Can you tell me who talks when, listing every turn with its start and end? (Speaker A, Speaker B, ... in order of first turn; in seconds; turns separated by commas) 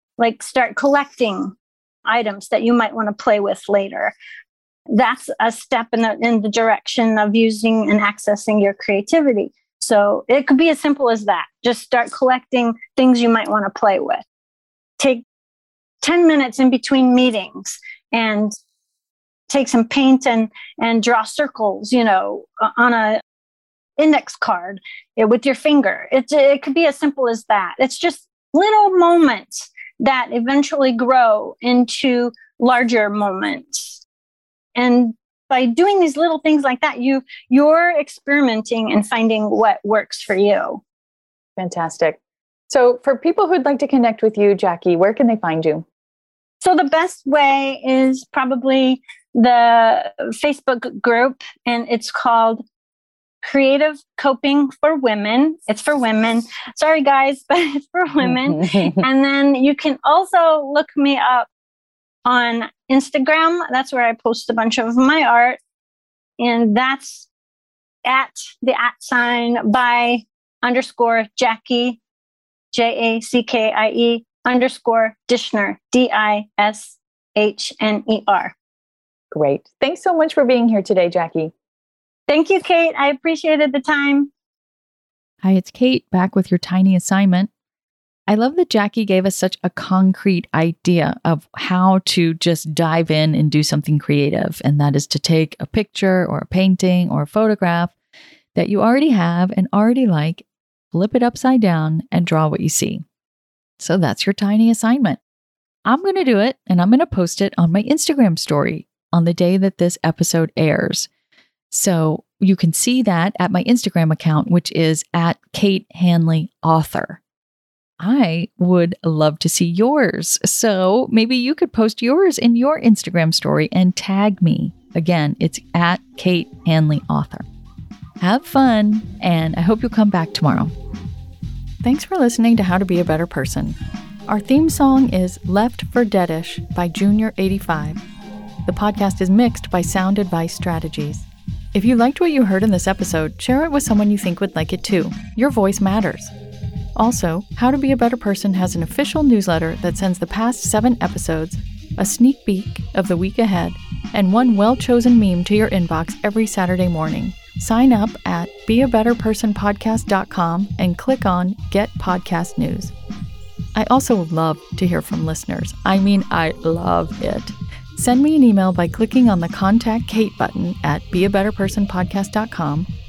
Speaker A: 0.2-4.1, Speaker A: 4.9-14.2, Speaker A: 15.0-15.2, Speaker A: 16.0-18.5, Speaker A: 19.5-23.2, Speaker A: 24.0-34.0, Speaker A: 34.8-40.8, Speaker B: 41.6-45.8, Speaker A: 46.6-52.6, Speaker A: 53.4-61.5, Speaker B: 58.5-59.0, Speaker A: 62.2-65.6, Speaker A: 66.4-67.3, Speaker A: 68.1-72.0, Speaker A: 72.7-78.5, Speaker B: 79.3-81.5, Speaker A: 82.3-84.3, Speaker C: 85.4-87.5, Speaker C: 88.3-97.9, Speaker C: 98.5-103.0, Speaker C: 103.8-105.2, Speaker C: 105.8-111.1, Speaker C: 111.7-117.2, Speaker C: 118.0-127.5, Speaker C: 128.2-130.7, Speaker C: 131.8-138.0, Speaker C: 138.7-146.3, Speaker C: 146.9-162.9, Speaker C: 163.7-172.9